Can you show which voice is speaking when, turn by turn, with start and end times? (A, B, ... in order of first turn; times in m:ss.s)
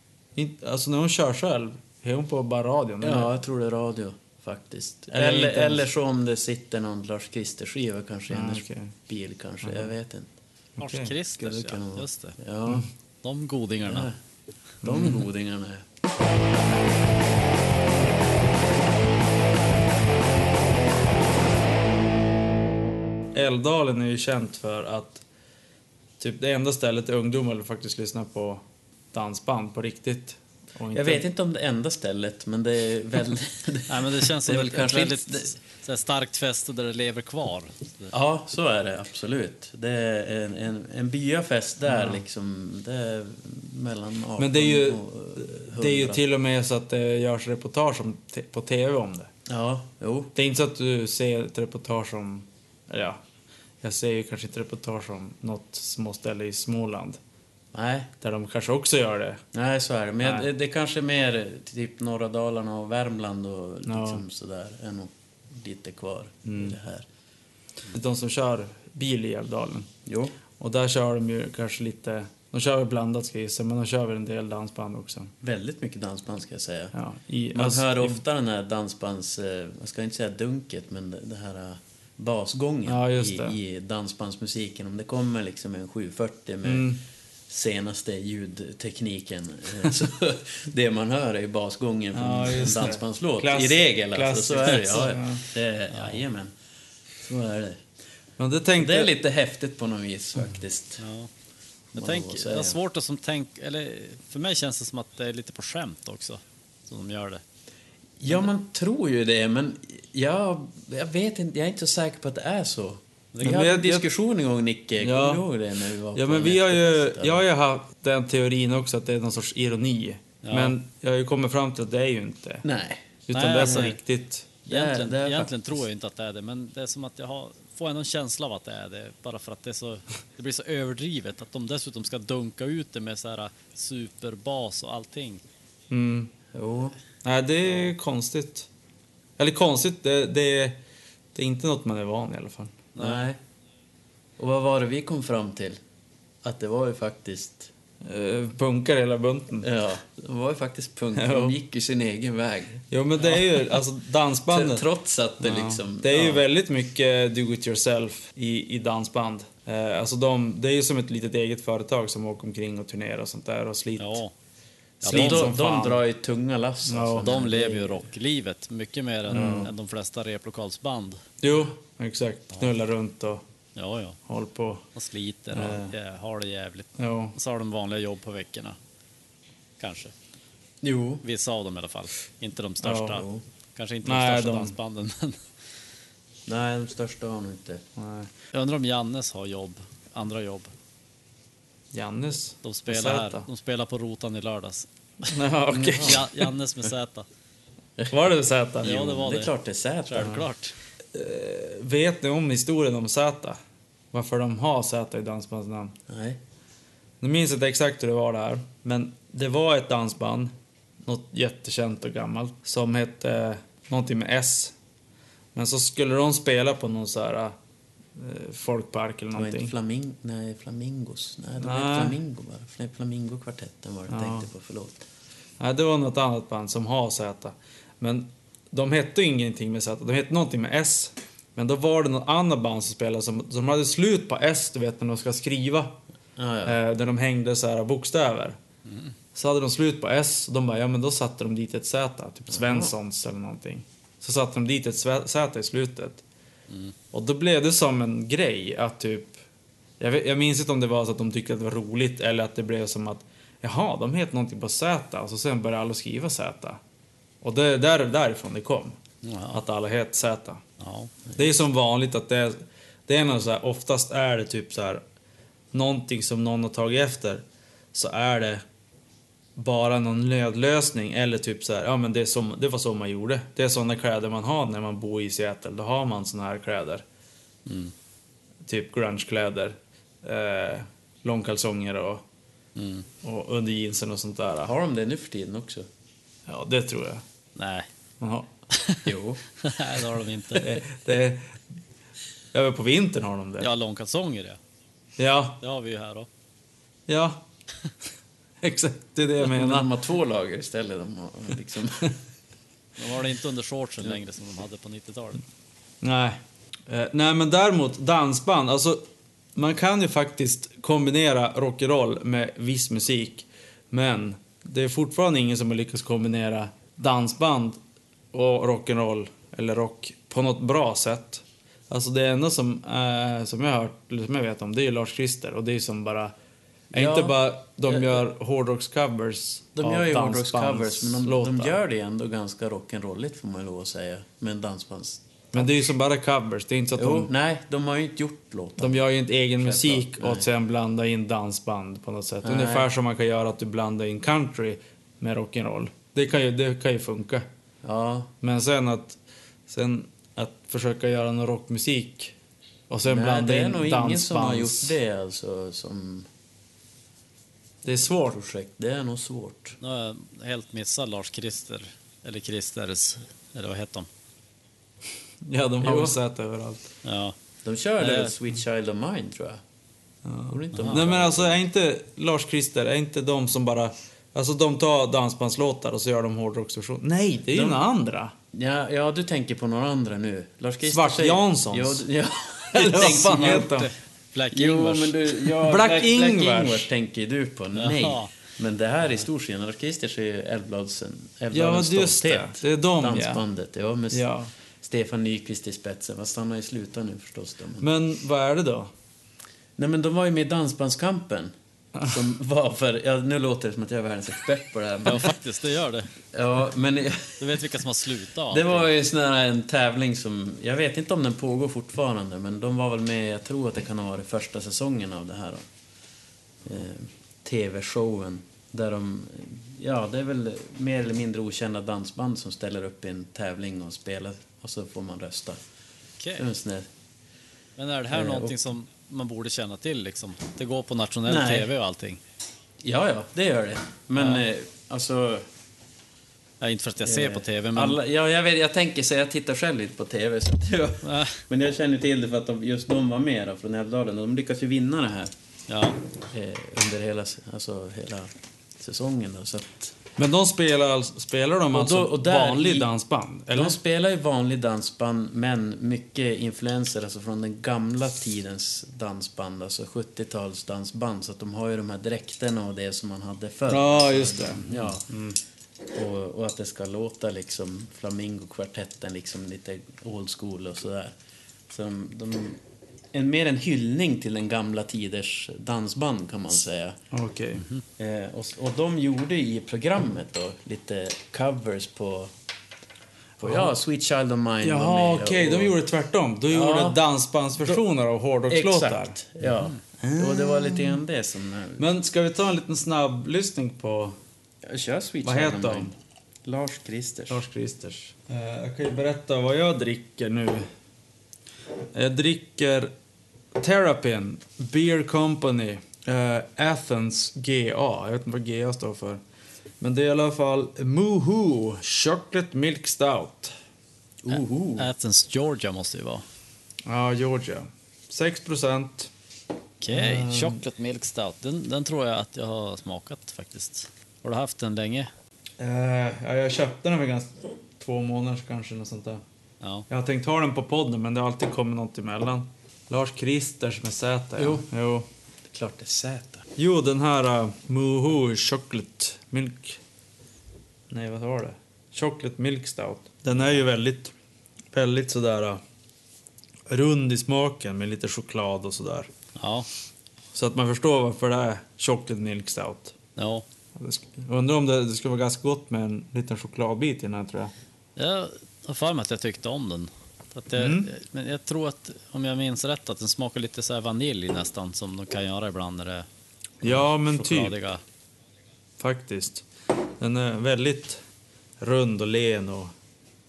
0:00.4-0:03.3 A
0:03.0-0:10.3 B
0:05.1-0:05.9 A
0:08.3-0:08.9 A
0:09.6-0:09.9 A
0:10.8-0:11.1 A
0:10.8-0:12.4 C
0:11.4-0:12.9 B
0:13.2-0:14.1 C
0:13.8-0:14.1 B
0:14.8-0:15.8 B
0:14.8-0:15.2 A
0:23.3-0:25.2 A
0:26.2-0:31.2 A
0:30.9-0:35.5 B
0:33.9-0:38.1 C
0:38.1-0:46.2 B
0:41.8-0:42.2 A
0:44.4-0:49.3 A
0:49.5-0:50.3 B
0:50.3-0:53.2 A
0:53.8-0:57.2 A
0:57.7-0:58.1 B
0:58.2-0:59.4 A
0:59.5-1:07.0 B
1:00.2-1:00.5 A
1:03.8-1:04.2 A
1:06.5-1:06.8 A
1:07.9-1:09.9 A
1:10.0-1:10.4 B
1:10.6-1:15.3 A
1:15.4-1:16.9 B
1:16.9-1:18.2 A
1:17.5-1:26.9 B
1:22.8-1:23.6 A
1:26.6-1:27.0 A
1:27.5-1:36.5 B
1:32.1-1:35.4 A
1:35.9-1:36.2 C
1:37.2-1:37.8 B
1:38.4-1:39.1 A
1:38.8-1:41.0 B
1:41.0-1:41.3 C
1:41.9-1:42.8 B
1:42.0-1:47.4 C
1:48.2-1:57.4 B
1:53.4-1:54.1 A
1:55.0-1:55.4 A
1:56.1-2:02.6 A
2:00.4-2:00.8 C
2:02.6-2:03.0 B
2:03.3-2:04.6 A
2:03.3-2:04.0 C
2:03.6-2:03.9 B
2:04.7-2:05.7 B
2:04.7-2:15.4 C
2:15.9-2:16.3 A
2:16.5-2:16.9 B
2:17.2-2:18.7 A
2:19.4-2:20.8 A
2:21.3-2:22.8 A
2:22.9-2:23.2 C
2:23.0-2:23.4 B
2:24.4-2:25.8 B
2:26.4-2:27.7 B
2:28.0-2:29.7 A
2:29.6-2:32.8 B
2:31.1-2:31.6 A
2:32.9-2:34.8 A
2:34.5-2:36.4 B
2:35.4-2:44.2 A
2:44.0-2:44.3 C
2:45.0-2:46.0 A
2:45.0-2:45.5 C
2:45.0-2:48.0 B
2:46.8-2:47.3 A
2:47.2-2:51.2 C
2:49.3-2:49.7 A
2:49.3-2:49.6 B
2:51.4-2:53.4 A
2:53.8-2:54.2 C
2:54.3-2:54.8 A
2:54.9-2:58.8 C
2:55.5-2:55.9 A
2:57.0-2:57.3 A
2:59.8-3:00.1 C
3:00.8-3:01.2 B
3:01.2-3:05.4 C
3:02.8-3:03.2 A
3:03.1-3:03.4 B
3:04.0-3:04.7 A
3:06.5-3:07.8 B
3:08.0-3:08.3 A
3:08.5-3:10.7 C
3:11.9-3:13.4 A
3:12.6-3:15.3 C
3:15.3-3:16.3 A
3:15.7-3:16.2 B
3:15.9-3:17.2 C
3:18.1-3:19.1 A
3:18.8-3:19.5 C
3:18.8-3:20.4 B
3:20.1-3:20.7 C
3:21.1-3:23.6 A
3:24.1-3:25.9 A
3:26.1-3:26.4 B
3:27.2-3:30.5 A
3:31.0-3:34.7 A
3:35.5-3:37.5 A
3:38.1-3:39.7 A
3:39.3-3:45.0 B
3:41.6-3:42.2 A
3:44.1-3:44.5 A
3:45.6-3:56.0 A
3:56.4-3:56.8 B
3:56.6-3:58.6 A
3:58.8-3:59.1 C
3:59.3-4:06.2 A
4:02.5-4:02.9 B
4:07.1-4:09.4 A
4:10.0-4:16.8 A
4:17.4-4:18.9 A
4:19.2-4:19.6 C
4:19.5-4:20.6 A
4:20.8-4:21.1 C
4:21.3-4:25.0 A
4:25.7-4:28.6 A
4:29.6-4:37.0 A
4:37.6-4:37.9 C
4:38.6-4:42.2 A
4:42.8-4:43.1 C
4:43.2-4:44.7 A
4:44.6-4:45.9 B
4:46.5-4:47.2 A
4:47.6-4:47.9 C
4:48.2-4:48.5 A
4:48.7-4:50.7 C
4:49.0-4:49.4 B
4:50.6-4:51.6 A
4:52.5-4:53.7 A
4:53.6-4:54.6 C
4:55.2-4:55.6 A
4:55.6-4:56.3 C
4:57.1-4:57.4 A
4:58.6-4:59.9 A
4:59.4-5:02.2 B
5:03.0-5:05.4 C
5:06.0-5:17.8 A
5:18.3-5:26.3 A
5:26.9-5:28.2 B
5:26.9-5:31.8 A
5:29.8-5:35.9 B
5:35.5-5:37.3 A
5:37.0-5:39.0 B
5:38.8-5:47.4 A
5:39.6-5:40.5 B
5:42.4-5:42.9 B
5:47.8-5:48.3 B
5:48.4-5:52.3 A
5:52.9-5:55.0 A
5:53.0-5:56.3 B
5:57.8-5:58.4 A
5:58.2-5:59.8 B
5:59.8-6:04.1 C
6:05.4-6:06.9 A
6:05.8-6:06.2 B
6:07.0-6:07.3 C
6:07.6-6:09.6 B
6:08.0-6:08.3 C
6:10.2-6:18.3 A
6:10.5-6:11.6 B
6:10.7-6:11.0 C
6:17.5-6:17.8 B
6:18.5-6:23.7 B
6:20.8-6:22.0 A
6:22.7-6:23.9 A
6:23.3-6:25.3 C
6:24.5-6:34.3 B
6:25.6-6:26.9 A
6:27.8-6:28.3 C
6:31.5-6:33.4 A
6:34.1-6:34.5 A
6:34.8-6:37.8 B
6:37.8-6:38.9 A
6:39.8-6:45.4 B
6:45.0-6:46.1 C
6:46.3-6:47.6 B
6:47.4-6:48.9 C
6:48.5-6:55.6 B
6:56.6-7:05.6 B
7:06.2-7:06.5 C
7:06.4-7:06.9 B
7:07.8-7:12.2 C
7:08.1-7:08.6 B
7:11.2-7:11.7 B
7:12.8-7:15.5 B
7:14.2-7:14.4 C
7:16.6-7:18.0 C
7:17.0-7:25.3 B
7:21.0-7:21.4 C
7:25.7-7:26.0 C
7:26.3-7:29.9 B
7:30.2-7:33.8 A
7:31.7-7:32.9 B
7:33.5-7:45.1 B
7:43.7-7:45.4 A
7:45.9-7:51.1 B
7:51.7-7:52.6 B
7:53.1-7:57.0 B
7:57.1-7:57.6 A
7:58.0-8:02.3 B
8:03.4-8:03.7 A
8:03.4-8:05.8 B
8:04.6-8:09.2 A
8:06.5-8:07.0 B
8:08.5-8:11.9 B
8:10.0-8:11.0 A
8:11.8-8:14.1 A
8:14.6-8:15.9 B
8:15.2-8:15.9 A
8:16.4-8:17.4 B
8:17.3-8:20.7 A
8:21.9-8:22.9 A
8:23.5-8:29.2 A
8:29.8-8:33.5 A
8:34.2-8:34.9 B
8:34.3-8:36.2 C
8:36.8-8:39.1 A
8:39.8-8:45.1 C
8:39.9-8:40.6 A
8:45.6-8:49.2 A
8:49.6-8:49.9 C
8:49.9-8:55.1 A
8:54.4-8:54.6 B
8:55.5-8:56.5 B
8:56.6-8:59.8 A
9:00.9-9:04.1 A
9:04.7-9:05.6 A
9:06.7-9:09.1 A
9:09.4-9:09.7 C
9:10.3-9:12.9 A
9:13.2-9:13.4 C
9:13.7-9:17.5 A
9:18.0-9:26.1 C
9:20.6-9:20.9 A
9:26.6-9:27.5 A
9:26.6-9:27.8 C
9:28.8-9:29.5 A
9:30.0-9:31.0 A
9:31.6-9:32.7 A